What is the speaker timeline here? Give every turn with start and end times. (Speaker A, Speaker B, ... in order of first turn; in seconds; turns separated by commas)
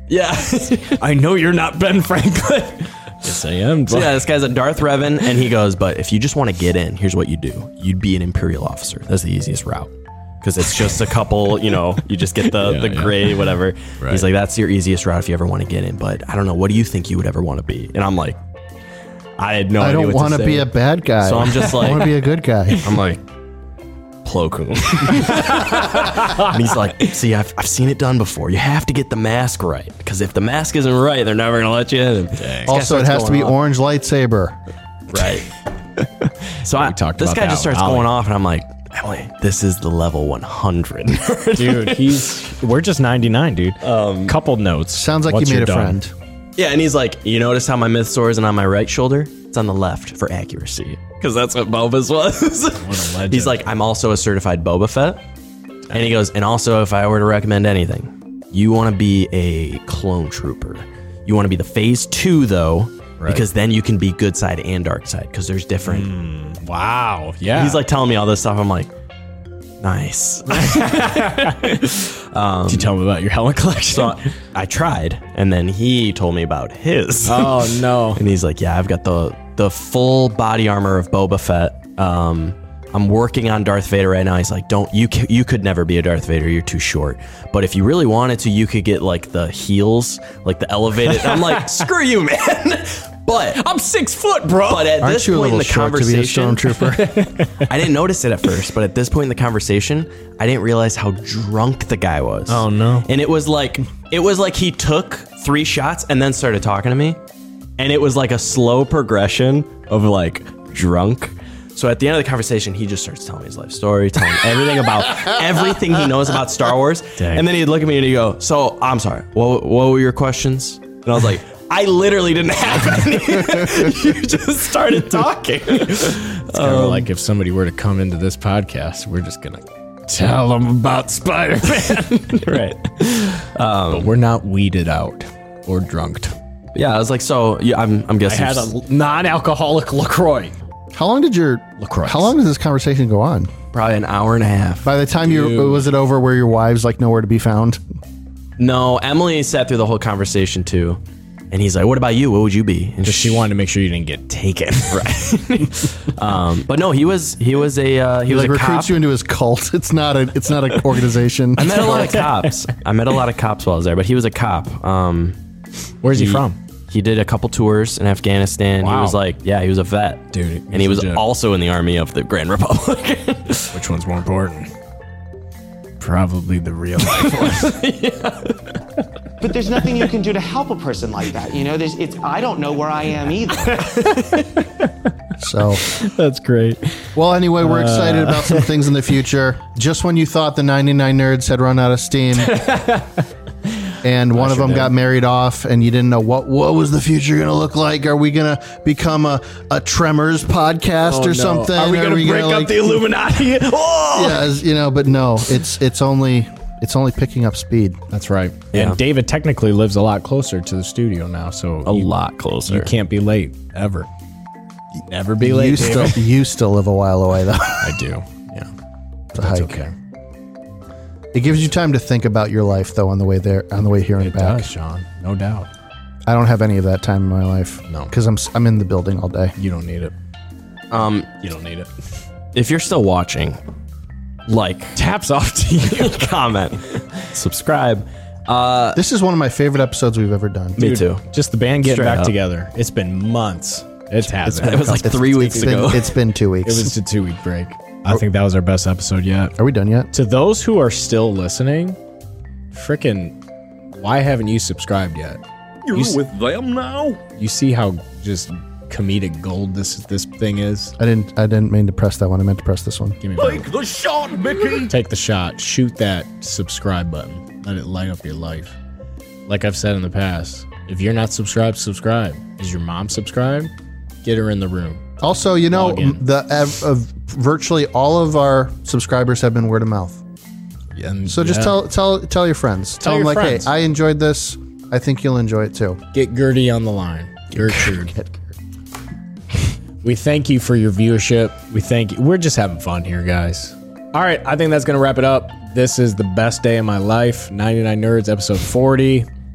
Speaker A: 0.1-1.0, Speaker B: 0.9-4.3, Speaker A: 3.9-18.4, Speaker B: 10.6-11.0, Speaker B: 12.4-14.2, Speaker A: 19.4-20.7, Speaker C: 19.8-22.9, Speaker A: 21.2-22.2, Speaker A: 22.8-23.2, Speaker A: 24.2-33.6, Speaker B: 25.1-26.8, Speaker B: 32.3-32.8, Speaker C: 32.7-34.6, Speaker A: 35.1-35.5, Speaker A: 36.6-42.2, Speaker B: 36.7-38.1, Speaker B: 41.5-46.0, Speaker A: 43.8-44.4, Speaker C: 44.9-46.1, Speaker A: 46.6-55.2, Speaker B: 52.8-53.6, Speaker B: 55.9-56.2, Speaker A: 55.9-66.1, Speaker B: 63.2-63.5, Speaker B: 65.8-67.8, Speaker A: 67.5-68.9, Speaker A: 69.8-72.9, Speaker B: 70.5-71.7, Speaker B: 72.7-74.3, Speaker A: 73.9-93.6, Speaker B: 77.2-78.2, Speaker B: 91.0-91.8, Speaker B: 93.4-95.0, Speaker A: 94.7-107.2, Speaker C: 95.0-97.1, Speaker B: 96.9-97.6, Speaker B: 102.5-103.1, Speaker A: 107.8-127.1, Speaker B: 117.2-117.5, Speaker B: 126.5-133.3, Speaker A: 132.3-134.1, Speaker B: 133.9-136.3, Speaker A: 136.8-138.7, Speaker B: 138.2-140.5, Speaker C: 140.9-143.5, Speaker B: 141.8-142.3, Speaker A: 143.7-144.9, Speaker C: 144.8-147.8, Speaker B: 145.2-145.9, Speaker A: 148.6-151.0, Speaker A: 151.5-153.5, Speaker B: 153.0-155.2, Speaker A: 154.9-159.0, Speaker C: 158.3-162.2, Speaker A: 161.6-165.4, Speaker B: 161.7-162.5, Speaker B: 166.0-166.6, Speaker A: 166.1-173.8, Speaker B: 168.8-169.2, Speaker B: 170.3-171.2, Speaker B: 173.7-174.7, Speaker B: 176.0-177.8, Speaker A: 177.1-178.7, Speaker D: 179.4-183.8, Speaker B: 183.6-184.9, Speaker C: 185.4-185.8, Speaker B: 185.7-188.9, Speaker C: 187.2-192.5, Speaker B: 192.4-193.2, Speaker C: 194.0-202.8, Speaker B: 194.3-194.9, Speaker B: 201.1-204.6, Speaker C: 204.1-208.0, Speaker B: 208.1-212.1, Speaker A: 208.7-209.0, Speaker A: 211.8-212.9, Speaker B: 212.7-214.1, Speaker B: 215.0-216.3, Speaker C: 215.4-218.0, Speaker B: 217.8-218.7, Speaker B: 219.3-219.9, Speaker C: 219.3-219.8, Speaker C: 221.3-224.7, Speaker B: 224.2-225.7, Speaker C: 226.3-229.6, Speaker B: 229.6-230.1, Speaker A: 230.9-231.3, Speaker B: 231.4-231.9, Speaker A: 232.5-233.6, Speaker A: 234.5-235.0, Speaker B: 234.9-236.3, Speaker A: 235.8-239.0, Speaker C: 238.9-240.9, Speaker A: 240.8-241.2, Speaker B: 240.8-245.9, Speaker A: 241.8-242.3, Speaker C: 244.3-246.9, Speaker A: 244.6-246.2, Speaker B: 246.6-249.5, Speaker C: 249.6-250.1, Speaker B: 250.1-252.0, Speaker B: 252.7-253.4, Speaker B: 253.9-255.4, Speaker E: 255.9-257.2, Speaker B: 255.9-256.2, Speaker B: 257.3-260.9, Speaker C: 261.0-263.2, Speaker B: 263.2-263.7, Speaker E: 263.4-264.9, Speaker B: 264.7-268.8, Speaker B: 269.5-273.7, Speaker B: 274.2-275.0, Speaker C: 275.2-280.2, Speaker B: 275.7-276.2, Speaker B: 280.9-281.8, Speaker C: 281.3-286.0, Speaker B: 283.0-283.7, Speaker B: 286.1-288.1, Speaker C: 287.6-288.4, Speaker B: 290.0-299.3